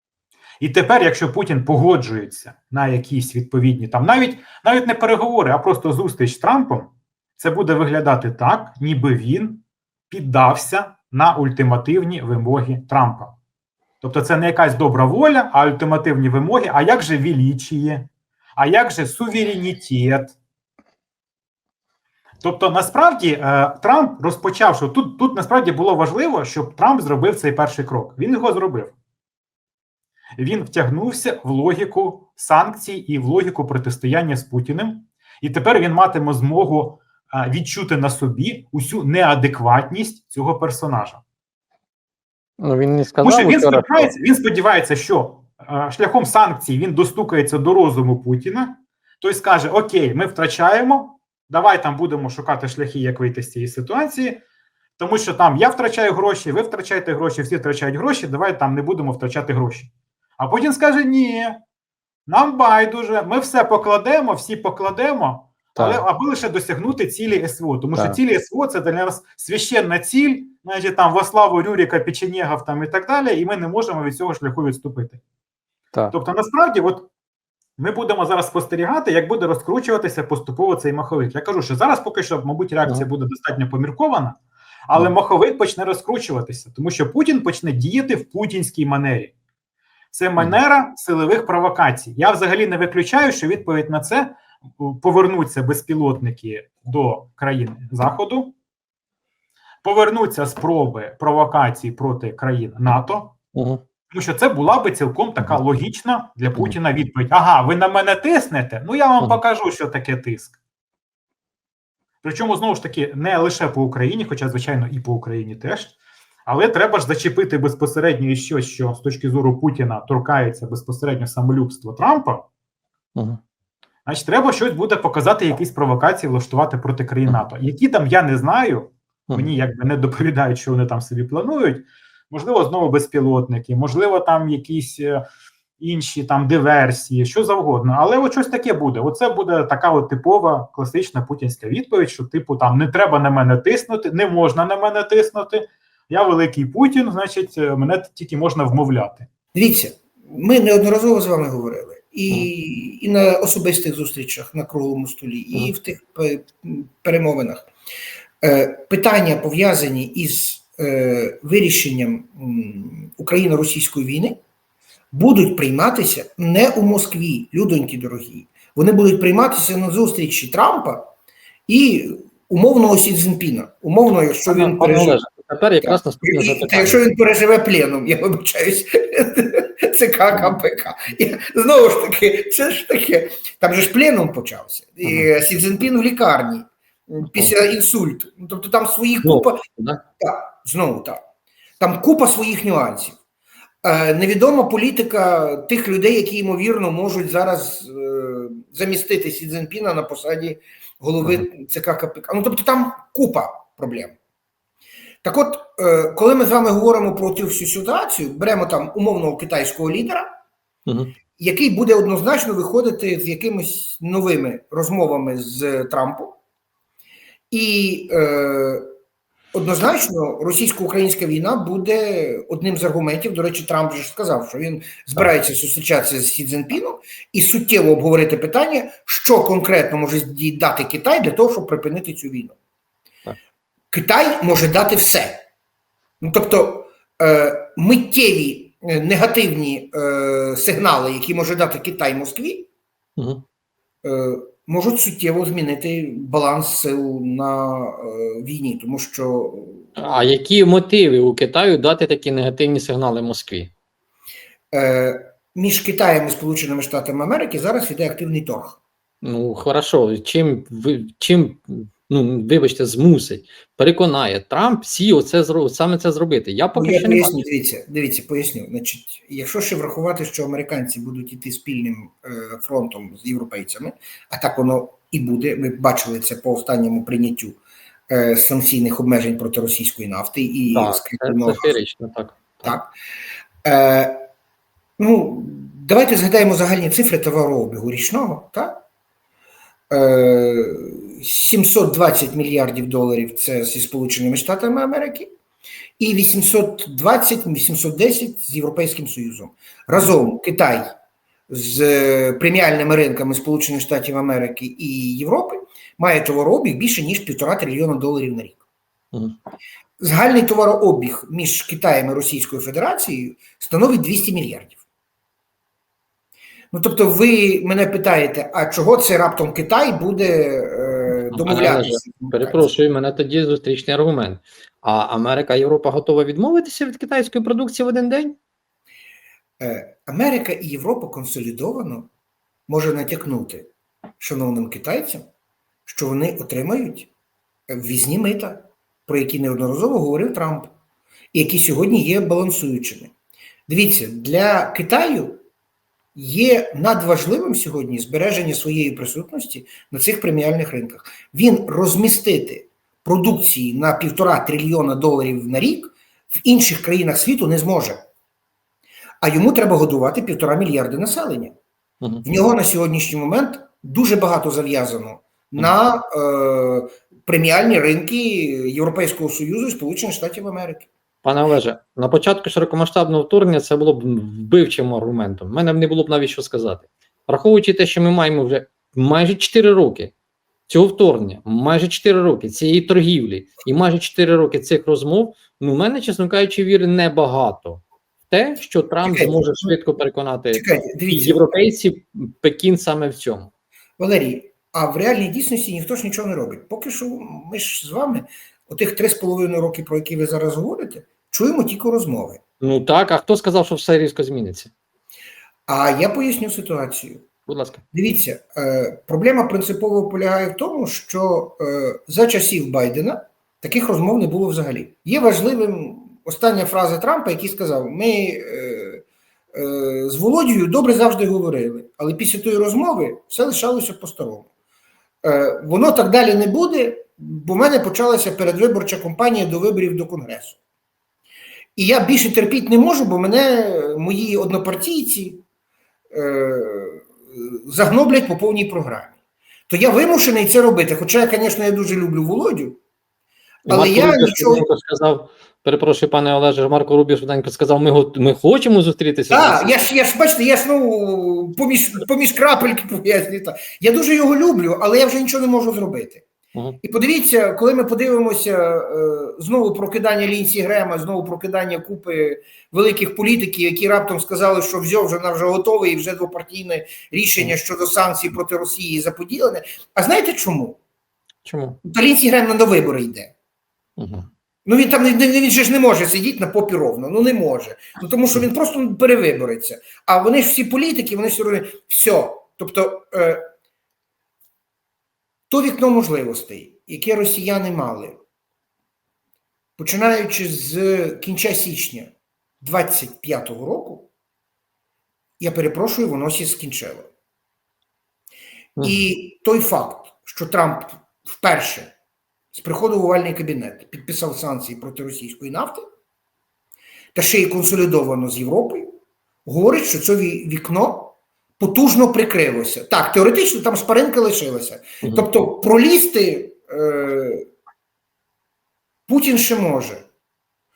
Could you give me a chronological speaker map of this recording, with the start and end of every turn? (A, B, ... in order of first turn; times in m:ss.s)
0:00.6-0:13.3 A
0:14.0-0:20.4 A
0:22.4-0:28.9 A
0:30.4-0:41.2 A
0:42.6-0:44.1 B
0:43.2-0:54.4 A
0:55.0-1:01.6 A
1:02.3-1:15.2 A
1:05.8-1:06.0 B
1:16.1-1:17.1 A
1:17.8-1:24.4 A
1:24.9-1:29.3 A
1:30.1-1:38.5 A
1:39.8-1:43.4 A
1:43.5-1:43.8 B
1:44.1-1:50.6 A
1:52.2-2:02.4 A
2:04.0-2:15.2 A
2:15.8-2:29.3 A
2:29.5-2:37.7 C
2:38.4-2:44.4 C
2:45.1-2:51.0 C
2:51.7-2:55.2 C
2:54.5-2:57.0 B
2:55.8-3:09.6 C
3:07.2-3:07.5 B
3:09.2-3:10.0 B
3:10.2-3:11.2 C
3:11.8-3:13.2 C
3:13.8-3:24.2 C
3:25.2-3:30.3 C
3:30.9-3:31.1 B
3:31.4-3:36.4 C
3:37.5-3:38.9 C
3:39.5-3:52.6 C
3:53.9-3:55.4 C
3:56.2-4:02.7 C
4:03.2-4:03.4 B
4:04.0-4:09.8 C
4:10.0-4:13.7 B
4:14.7-4:18.8 C
4:19.2-4:27.4 B
4:26.7-4:37.6 C
4:38.1-4:41.8 C
4:40.7-4:42.8 B
4:42.6-4:42.9 C
4:43.6-4:44.2 C
4:45.0-4:48.8 C
4:49.9-4:55.3 C
4:56.0-5:00.9 C
5:01.5-5:08.6 C
5:10.0-5:14.8 C
5:16.7-5:22.7 C
5:21.3-5:28.4 B
5:29.6-5:32.1 C
5:32.7-5:35.2 C
5:35.9-5:37.1 C
5:37.7-5:40.7 C
5:41.3-5:43.1 C
5:43.7-5:45.4 C
5:46.1-5:58.0 C
5:59.2-6:01.6 C
6:02.2-6:10.9 C
6:11.2-6:20.1 B
6:20.7-6:33.5 B
6:29.0-6:29.8 C
6:30.5-6:31.5 C
6:34.0-6:42.4 C
6:42.6-6:44.7 B
6:45.7-6:47.2 C
6:47.5-6:47.8 B
6:47.9-6:59.0 C
6:59.5-7:04.5 C
7:05.2-7:10.6 C
7:11.8-7:15.4 C
7:16.1-7:19.1 C
7:19.7-7:22.8 C
7:23.6-7:29.8 B
7:23.7-7:24.6 C
7:29.3-7:36.2 C
7:36.8-7:50.8 C
7:51.4-7:51.8 B
7:51.8-7:53.3 C
7:54.0-7:54.3 B
7:54.6-8:03.4 C
8:05.5-8:08.2 C
8:09.8-8:14.1 C
8:15.4-8:17.1 C
8:18.8-8:21.9 C
8:22.5-8:25.8 C
8:27.1-8:28.9 C
8:29.4-8:37.4 C
8:35.0-8:35.3 B
8:39.1-8:40.0 C